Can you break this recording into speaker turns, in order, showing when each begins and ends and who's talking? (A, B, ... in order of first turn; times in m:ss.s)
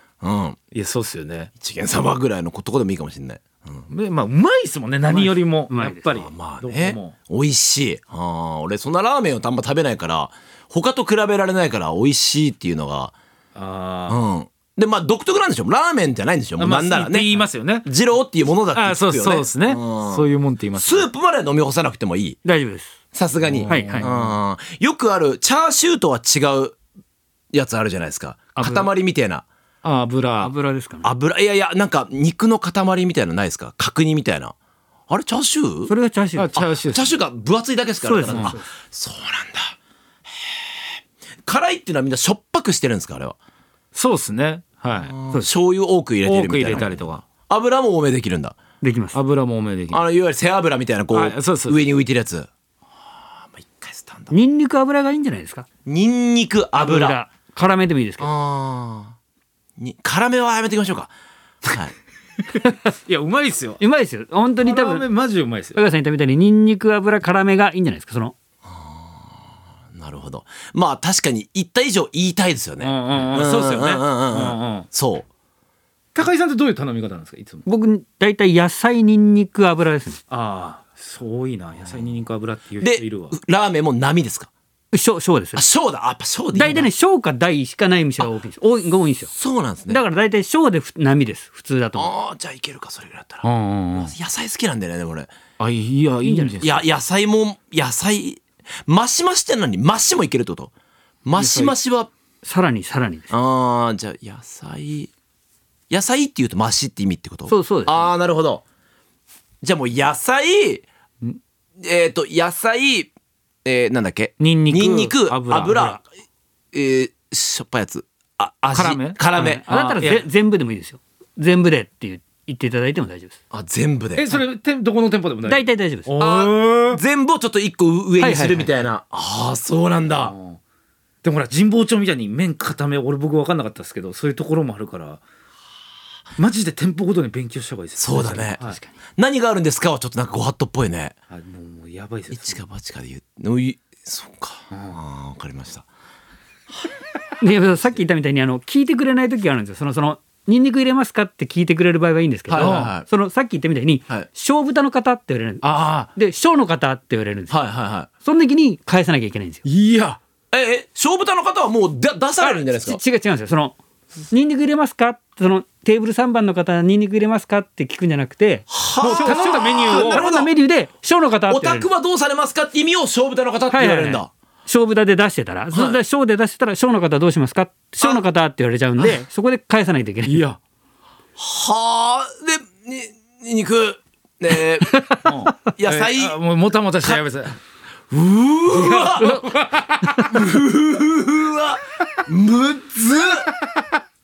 0:00.2-0:00.6 A
0:00.7-0:01.5 B
0:01.6-0:03.8 A
0:03.9-0:07.2 B
0:05.1-0:06.1 C
0:06.1-0:13.2 A
0:13.6-0:14.2 B
0:14.1-0:17.3 A
0:16.6-0:17.9 B
0:17.8-0:22.4 A
0:18.7-0:21.1 B
0:22.4-0:23.0 C
0:23.1-0:26.8 A
0:23.4-0:24.3 B
0:23.7-0:24.1 C
0:27.5-0:29.4 A
0:28.6-0:28.9 C
0:29.8-0:30.5 B
0:30.4-0:31.1 C
0:31.0-0:34.5 A
0:35.1-0:35.9 A
0:35.9-0:36.6 C
0:36.4-0:37.2 B
0:36.6-0:39.8 A
0:38.0-0:38.7 C
0:38.3-0:38.6 B
0:40.5-0:43.4 A
0:43.9-0:45.1 B
0:45.1-0:48.6 A
0:46.2-0:47.2 B
0:48.8-0:49.2 C
0:49.1-0:50.0 B
0:49.9-0:52.5 A
0:51.1-0:51.8 B
0:53.5-0:54.3 A
0:54.3-0:55.7 C
0:55.9-0:57.2 A
0:56.8-0:58.3 C
0:58.2-0:59.2 A
0:59.8-1:01.1 A
1:01.6-1:01.9 A
1:02.8-1:03.8 B
1:03.8-1:05.1 C
1:04.6-1:05.8 B
1:05.8-1:08.4 C
1:08.6-1:09.2 A
1:09.9-1:15.3 A
1:12.8-1:14.9 B
1:16.2-1:17.6 B
1:17.7-1:20.2 C
1:20.3-1:23.4 B
1:22.8-1:24.5 A
1:24.9-1:25.7 C
1:25.6-1:26.9 A
1:26.5-1:29.3 C
1:29.3-1:30.0 A
1:29.9-1:32.1 C
1:32.0-1:35.3 A
1:33.4-1:34.1 B
1:35.6-1:36.9 B
1:36.2-1:36.6 C
1:36.6-1:40.7 A
1:41.2-1:42.1 A
1:41.4-1:41.8 B
1:42.4-1:43.3 C
1:43.3-1:45.1 A
1:45.9-1:48.6 A
1:47.5-1:48.1 C
1:49.6-1:50.9 A
1:51.8-1:53.1 A
1:53.6-1:56.0 A
1:54.4-1:56.0 B
1:56.7-1:59.7 A
1:58.7-2:00.3 B
1:59.7-2:03.4 C
2:03.5-2:04.3 A
2:04.2-2:07.0 B
2:05.4-2:06.1 C
2:06.2-2:10.3 A
2:08.2-2:08.9 C
2:10.2-2:10.6 B
2:11.2-2:15.2 B
2:16.4-2:18.8 B
2:18.0-2:18.6 A
2:18.6-2:18.9 C
2:19.2-2:21.1 A
2:21.3-2:22.6 B
2:22.3-2:25.8 A
2:24.7-2:25.0 B
2:27.4-2:39.6 C
2:32.5-2:33.0 A
2:32.6-2:32.9 B
2:35.6-2:36.1 B
2:37.5-2:38.1 A
2:39.6-2:40.2 B
2:40.5-2:43.0 A
2:42.4-2:43.8 C
2:44.3-2:51.9 C
2:48.7-2:50.5 A
2:49.0-2:50.3 B
2:51.5-2:54.3 A
2:53.7-3:00.4 C
2:55.7-2:56.0 A
3:00.2-3:00.6 B
3:01.4-3:05.1 A
3:04.8-3:05.3 C
3:05.2-3:07.6 B
3:05.7-3:06.4 A
3:08.1-3:09.6 A
3:08.7-3:10.0 B
3:10.2-3:13.5 A